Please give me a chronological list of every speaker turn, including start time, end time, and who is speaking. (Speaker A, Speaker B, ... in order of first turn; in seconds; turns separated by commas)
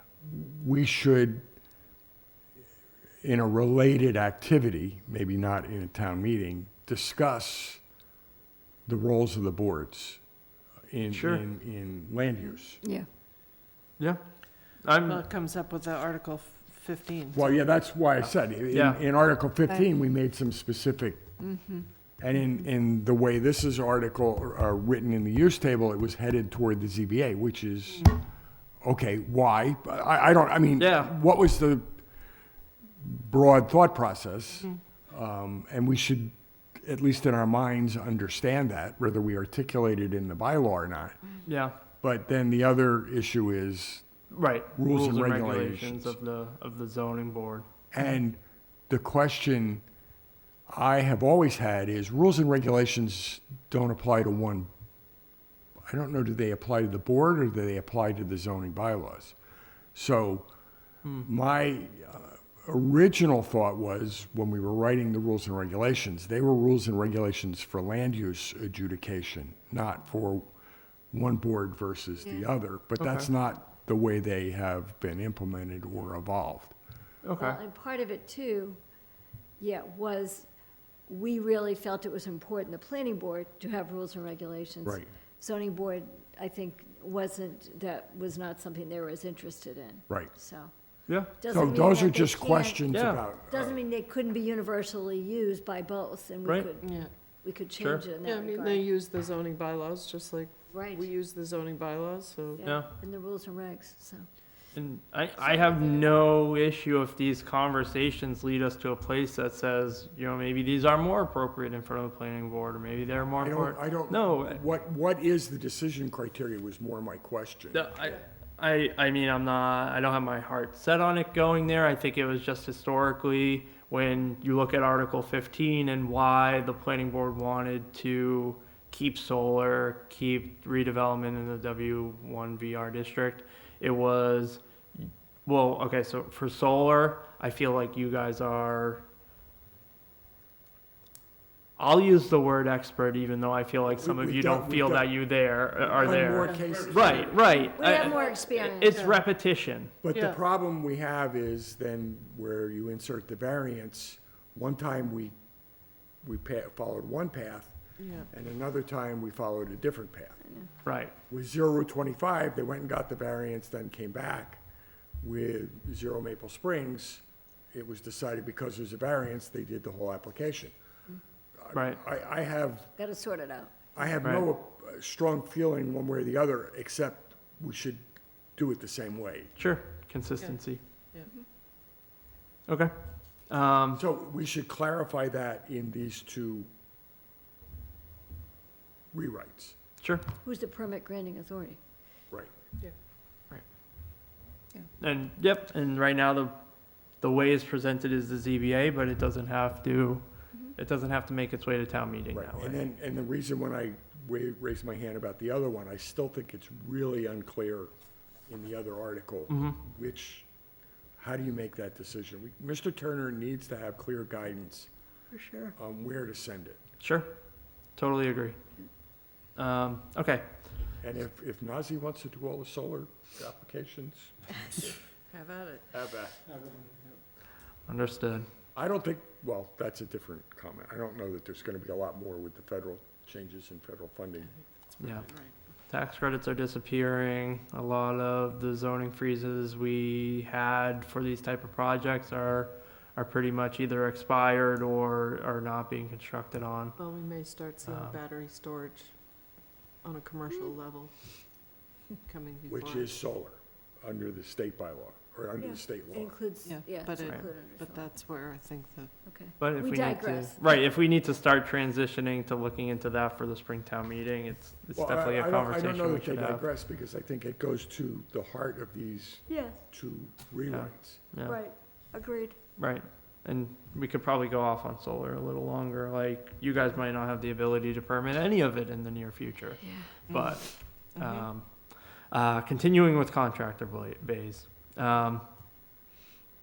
Speaker A: 0.2-1.4, Speaker A: 3.2-7.8, Speaker A: 8.8-10.2, Speaker A: 10.9-12.8, Speaker B: 11.1-11.4, Speaker B: 14.8-15.2, Speaker C: 15.1-17.4, Speaker A: 17.3-21.3, Speaker B: 18.7-19.0, Speaker D: 21.4-21.9, Speaker A: 22.2-28.1, Speaker A: 28.8-32.0, Speaker B: 30.8-31.1, Speaker A: 33.0-41.2, Speaker B: 41.5-41.8, Speaker A: 42.0-44.1, Speaker B: 44.3-47.6, Speaker A: 44.7-46.2, Speaker A: 47.9-49.8, Speaker A: 50.7-54.7, Speaker A: 55.9-59.4, Speaker A: 59.9-60.5, Speaker A: 61.2-70.5, Speaker A: 71.1-76.8, Speaker B: 73.0-73.3, Speaker B: 77.2-77.6, Speaker D: 77.4-78.8, Speaker D: 79.6-80.5, Speaker D: 81.1-90.7, Speaker A: 84.8-85.1, Speaker B: 91.1-91.3, Speaker D: 91.4-92.9, Speaker A: 91.5-93.8, Speaker B: 92.9-93.2, Speaker D: 93.5-98.9, Speaker B: 96.4-96.7, Speaker C: 96.8-97.1, Speaker B: 97.8-98.0, Speaker C: 98.2-102.6, Speaker D: 100.7-101.1, Speaker D: 102.6-104.2, Speaker B: 102.6-102.9, Speaker B: 104.7-114.6, Speaker D: 105.4-106.3, Speaker A: 113.4-117.9, Speaker B: 117.7-139.0, Speaker B: 141.8-149.9, Speaker A: 143.9-145.1, Speaker A: 145.8-147.3, Speaker C: 146.0-147.3, Speaker D: 147.6-149.0, Speaker C: 148.1-149.2, Speaker A: 150.0-155.3, Speaker C: 150.1-150.4, Speaker A: 156.2-157.8, Speaker C: 158.0-158.3, Speaker A: 158.3-160.5, Speaker B: 160.8-161.1, Speaker A: 161.3-164.6, Speaker A: 165.2-170.7, Speaker A: 171.6-172.9, Speaker B: 171.7-172.0, Speaker D: 173.0-174.1, Speaker A: 173.9-178.0, Speaker A: 178.6-179.6, Speaker B: 179.6-180.8, Speaker B: 182.7-182.9, Speaker B: 183.5-184.0, Speaker A: 183.9-186.7, Speaker A: 189.1-189.8, Speaker B: 190.0-190.3, Speaker D: 190.4-191.8, Speaker B: 195.0-196.6, Speaker B: 197.2-200.2, Speaker B: 200.7-202.8, Speaker A: 202.3-207.9, Speaker A: 208.5-210.5, Speaker B: 209.5-209.8, Speaker A: 211.2-214.9, Speaker D: 215.3-215.7, Speaker A: 215.7-216.8, Speaker B: 217.0-217.4, Speaker B: 217.9-218.6, Speaker B: 219.6-220.6, Speaker A: 221.0-224.9, Speaker C: 225.3-225.9, Speaker A: 225.9-226.4, Speaker B: 227.9-228.5, Speaker A: 228.7-234.5, Speaker C: 235.0-235.5, Speaker B: 235.0-235.2, Speaker B: 235.9-247.0, Speaker C: 247.0-249.1, Speaker B: 247.8-248.2, Speaker C: 250.0-251.1, Speaker C: 252.2-253.2, Speaker A: 252.7-256.4, Speaker D: 255.6-258.1, Speaker C: 256.6-259.1, Speaker D: 259.2-260.7, Speaker B: 259.6-266.6, Speaker A: 264.9-271.2, Speaker B: 270.7-271.6, Speaker D: 271.4-272.5, Speaker B: 272.8-285.4, Speaker D: 279.8-280.1, Speaker C: 280.3-280.5, Speaker C: 281.1-281.4